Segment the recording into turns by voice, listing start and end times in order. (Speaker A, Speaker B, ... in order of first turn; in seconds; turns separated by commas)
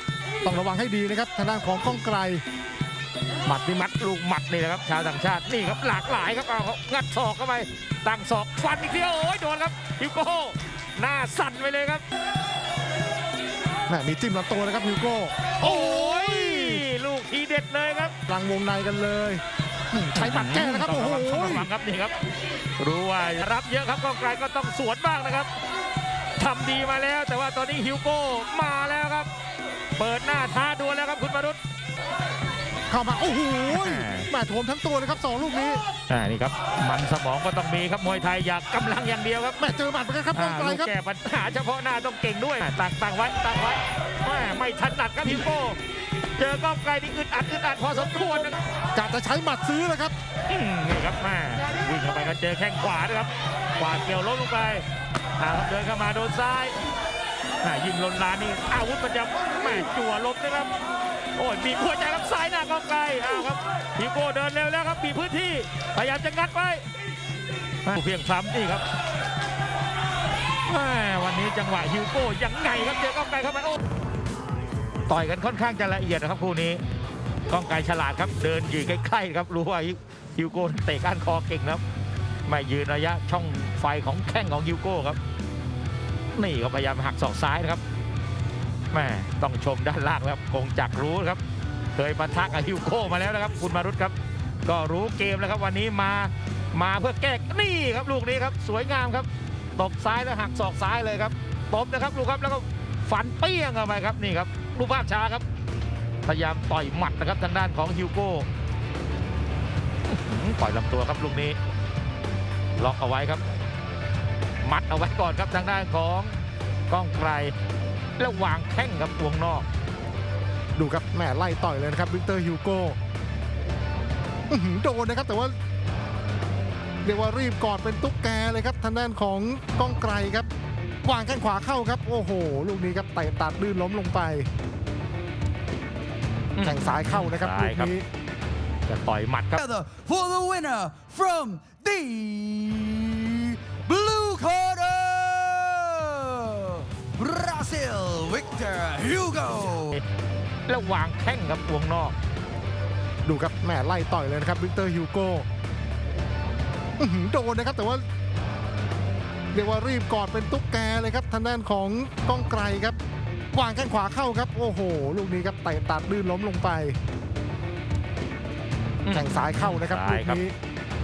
Speaker A: 0.4-2.4, Speaker B: 3.5-12.0, Speaker A: 13.9-16.8, Speaker B: 15.6-18.1, Speaker A: 18.3-21.7, Speaker B: 20.1-22.1, Speaker B: 22.8-25.5, Speaker B: 26.4-29.3, Speaker B: 30.0-31.6, Speaker A: 32.9-35.8, Speaker B: 33.7-34.3, Speaker B: 36.1-39.6, Speaker A: 39.6-40.9, Speaker B: 40.4-45.8, Speaker B: 46.4-48.6, Speaker A: 49.0-50.1, Speaker B: 50.5-54.8, Speaker B: 55.4-56.8, Speaker B: 57.6-60.7, Speaker B: 61.4-66.9, Speaker B: 67.8-68.8, Speaker B: 70.7-73.8, Speaker B: 75.1-76.8, Speaker B: 77.5-81.8, Speaker B: 82.5-85.2, Speaker B: 86.3-87.8, Speaker B: 88.9-91.4, Speaker B: 91.9-105.4, Speaker B: 106.2-108.5, Speaker B: 110.1-111.6, Speaker B: 112.8-113.4, Speaker B: 114.6-117.5, Speaker B: 118.2-119.7, Speaker A: 120.8-123.0, Speaker A: 124.5-125.6, Speaker A: 127.0-130.5, Speaker A: 131.0-134.5, Speaker B: 136.6-137.9, Speaker A: 136.6-138.1, Speaker B: 138.9-139.6, Speaker C: 139.6-150.0, Speaker B: 150.7-152.2, Speaker A: 153.2-155.5, Speaker A: 157.0-158.1, Speaker A: 159.5-163.0, Speaker A: 163.5-167.0, Speaker B: 169.1-170.4, Speaker A: 169.1-170.5